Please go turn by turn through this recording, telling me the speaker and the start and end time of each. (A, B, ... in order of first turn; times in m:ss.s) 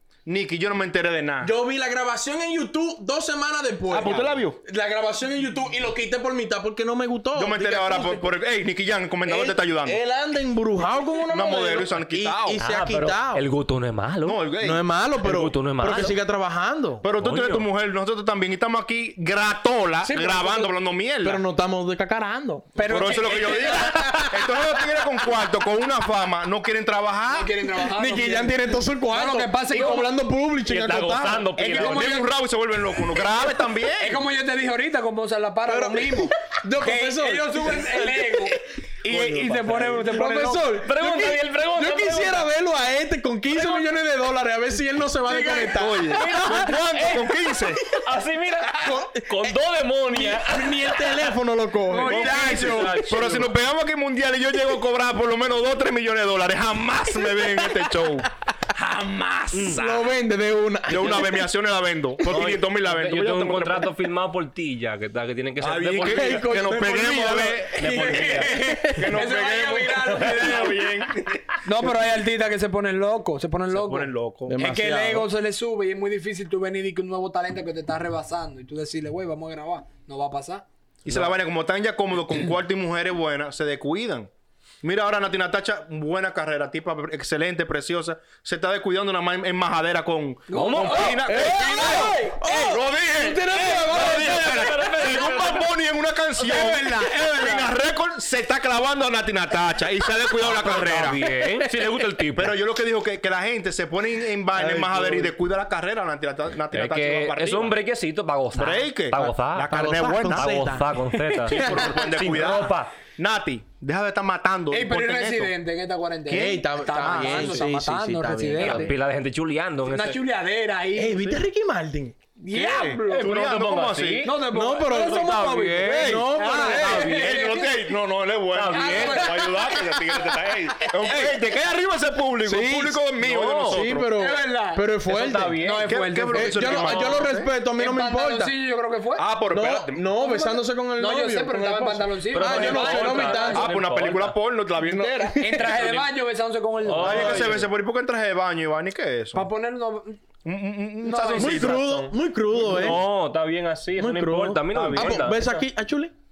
0:00.2-0:01.5 A
0:01.4-0:08.3 B
0:03.9-0:04.6 A
0:07.3-0:10.0 A
0:09.2-0:13.4 B
0:11.3-0:12.6 A
0:12.6-0:14.4 C
0:14.2-0:14.8 A
0:14.6-0:17.0 B
0:15.2-0:16.2 C
0:17.0-0:21.4 A
0:17.2-0:17.7 C
0:20.0-0:22.8 B
0:22.8-0:24.2 D
0:22.8-0:27.6 A
0:23.5-0:24.6 B
0:27.3-0:28.6 D
0:27.8-0:31.5 B
0:29.1-0:30.1 D
0:30.6-0:32.2 C
0:31.6-0:34.2 A
0:31.7-0:32.3 D
0:34.0-0:40.8 D
0:35.7-0:38.5 B
0:39.0-0:40.1 A
0:40.1-0:46.6 B
0:40.8-0:42.5 C
0:43.5-0:43.8 C
0:45.3-0:46.8 D
0:45.6-0:47.8 A
0:46.4-0:47.3 C
0:47.8-0:51.4 C
0:48.8-0:53.2 B
0:51.9-0:53.0 D
0:52.0-0:58.3 A
0:52.1-0:53.5 C
0:57.3-0:57.9 B
0:58.8-0:59.7 A
0:59.5-1:01.5 B
0:59.5-1:00.0 C
1:00.9-1:03.9 A
1:02.3-1:06.6 C
1:05.6-1:11.5 A
1:06.0-1:09.2 B
1:07.7-1:08.6 C
1:08.2-1:10.8 D
1:11.6-1:20.6 D
1:13.7-1:14.5 A
1:14.5-1:15.3 B
1:21.0-1:24.3 A
1:24.8-1:41.2 A
1:30.5-1:32.4 D
1:30.5-1:31.9 C
1:31.2-1:34.8 B
1:33.7-1:35.7 C
1:36.4-1:37.7 D
1:40.4-1:42.6 C
1:42.3-1:47.8 A
1:44.5-1:45.3 B
1:46.7-1:52.9 C
1:48.5-1:50.6 A
1:49.7-1:52.6 B
1:51.5-1:55.5 A
1:54.7-1:58.9 D
1:56.3-1:58.9 B
1:56.3-1:57.6 A
1:58.6-2:00.2 C
1:59.9-2:01.4 D
2:01.0-2:02.2 B
2:02.4-2:03.4 D
2:02.5-2:04.3 A
2:03.1-2:07.5 C
2:04.2-2:05.8 D
2:04.5-2:07.1 B
2:05.8-2:14.1 A
2:06.3-2:07.9 D
2:08.5-2:09.5 C
2:08.7-2:10.0 D
2:10.8-2:11.4 D
2:12.4-2:13.0 B
2:13.2-2:13.8 C
2:13.7-2:15.6 B
2:14.2-2:14.8 D
2:15.1-2:15.8 C
2:15.6-2:19.2 D
2:15.7-2:17.5 A
2:16.3-2:18.5 B
2:19.2-2:20.0 A
2:19.5-2:23.7 B
2:20.1-2:23.7 D
2:22.3-2:24.4 C
2:23.5-2:25.5 A
2:24.8-2:25.7 B
2:25.4-2:27.6 D
2:25.7-2:26.1 C
2:26.8-2:27.7 C
2:27.0-2:29.5 A
2:29.3-2:30.2 D
2:30.4-2:31.8 A
2:31.0-2:31.6 D
2:31.3-2:35.6 C
2:31.3-2:33.0 B
2:32.7-2:33.0 A
2:34.0-2:36.1 B
2:34.7-2:35.3 A